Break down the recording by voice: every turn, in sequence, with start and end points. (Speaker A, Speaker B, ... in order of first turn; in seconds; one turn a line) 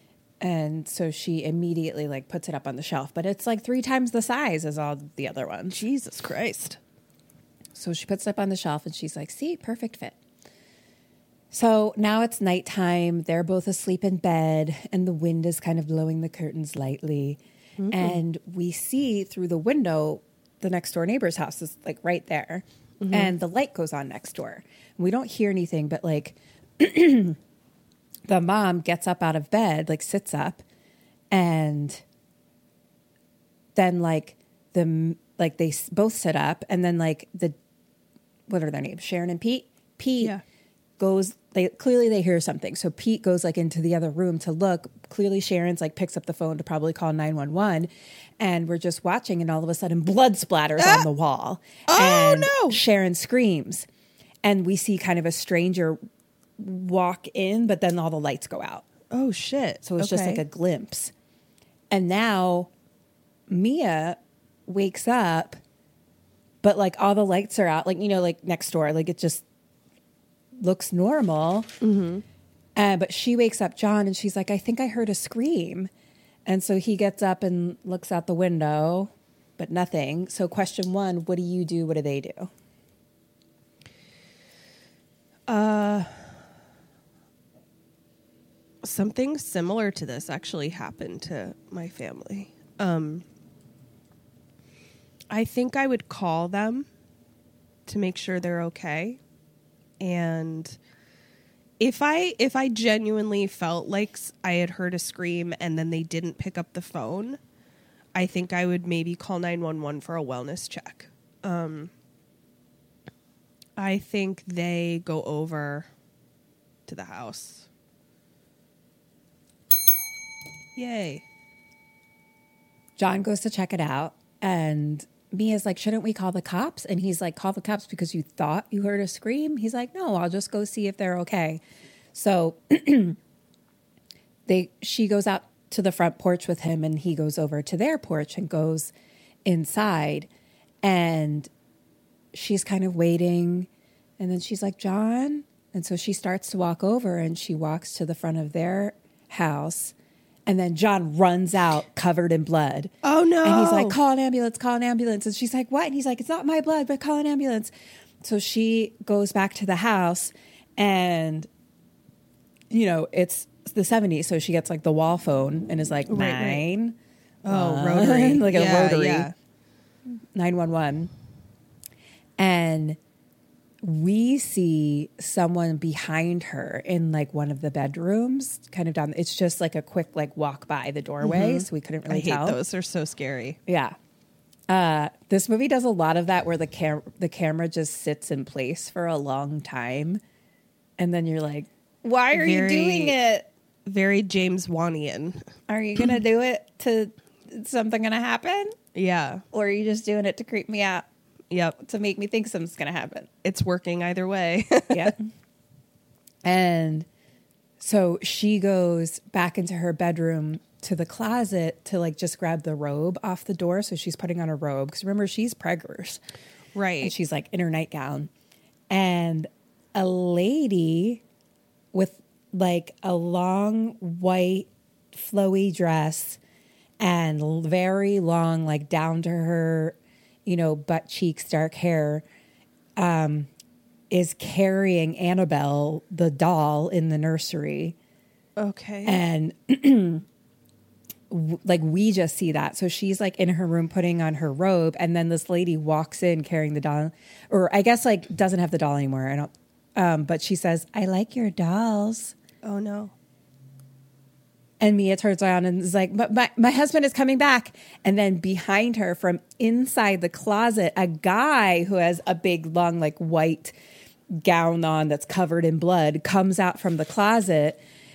Speaker A: 0.4-5.8
Speaker B: 5.7-6.8
Speaker A: 7.7-10.2
Speaker A: 11.5-17.4
Speaker B: 17.8-18.2
Speaker A: 17.9-27.4
Speaker B: 23.0-23.3
Speaker A: 28.3-30.6
Speaker A: 31.3-32.0
Speaker A: 33.7-37.5
Speaker A: 38.5-40.4
Speaker A: 41.0-53.9
Speaker B: 50.8-51.0
Speaker B: 51.9-52.8
Speaker A: 54.4-56.0
Speaker A: 56.6-58.8
Speaker B: 59.1-60.4
Speaker A: 59.8-61.1
Speaker A: 61.9-62.7
Speaker A: 63.5-65.6
Speaker A: 66.6-69.4
Speaker A: 70.6-71.7
Speaker B: 71.8-72.2
Speaker A: 72.8-75.9
Speaker A: 76.5-82.5
Speaker B: 85.5-86.3
Speaker B: 88.8-93.2
Speaker B: 95.3-96.9
Speaker B: 97.8-99.2
Speaker B: 100.0-100.8
Speaker B: 101.8-107.4
Speaker B: 108.1-111.9
Speaker B: 113.8-115.9
Speaker B: 116.9-117.7
Speaker B: 120.8-121.2
Speaker A: 123.0-131.6
Speaker A: 132.1-133.2
Speaker A: 134.5-138.9
Speaker A: 139.4-140.3
Speaker A: 140.8-141.5
Speaker A: 142.3-149.9
Speaker A: 150.5-152.9
Speaker B: 153.0-154.0
Speaker A: 153.4-157.7
Speaker A: 158.2-161.5
Speaker A: 162.7-169.3
Speaker B: 166.1-166.7
Speaker B: 167.4-169.3
Speaker A: 170.3-171.1
Speaker A: 172.4-173.0
Speaker A: 173.8-182.6
Speaker B: 181.2-183.6
Speaker A: 183.7-183.9
Speaker A: 184.7-190.2
Speaker A: 191.0-193.5
Speaker B: 192.3-193.1
Speaker B: 193.8-196.0
Speaker A: 195.7-198.8
Speaker B: 198.9-199.4
Speaker A: 199.5-201.0
Speaker B: 201.5-201.8
Speaker A: 201.8-203.3
Speaker B: 203.4-205.1
Speaker A: 204.9-205.2
Speaker A: 206.4-207.1
Speaker A: 207.8-216.2
Speaker B: 216.7-217.1
Speaker A: 217.0-218.3
Speaker A: 218.9-221.2
Speaker A: 221.9-226.4
Speaker A: 227.0-232.2
Speaker A: 233.0-233.5
Speaker A: 234.1-237.9
Speaker B: 238.6-239.2
Speaker A: 239.0-240.2
Speaker A: 241.3-252.3
Speaker B: 252.6-253.1
Speaker A: 254.8-263.7
Speaker A: 264.3-267.8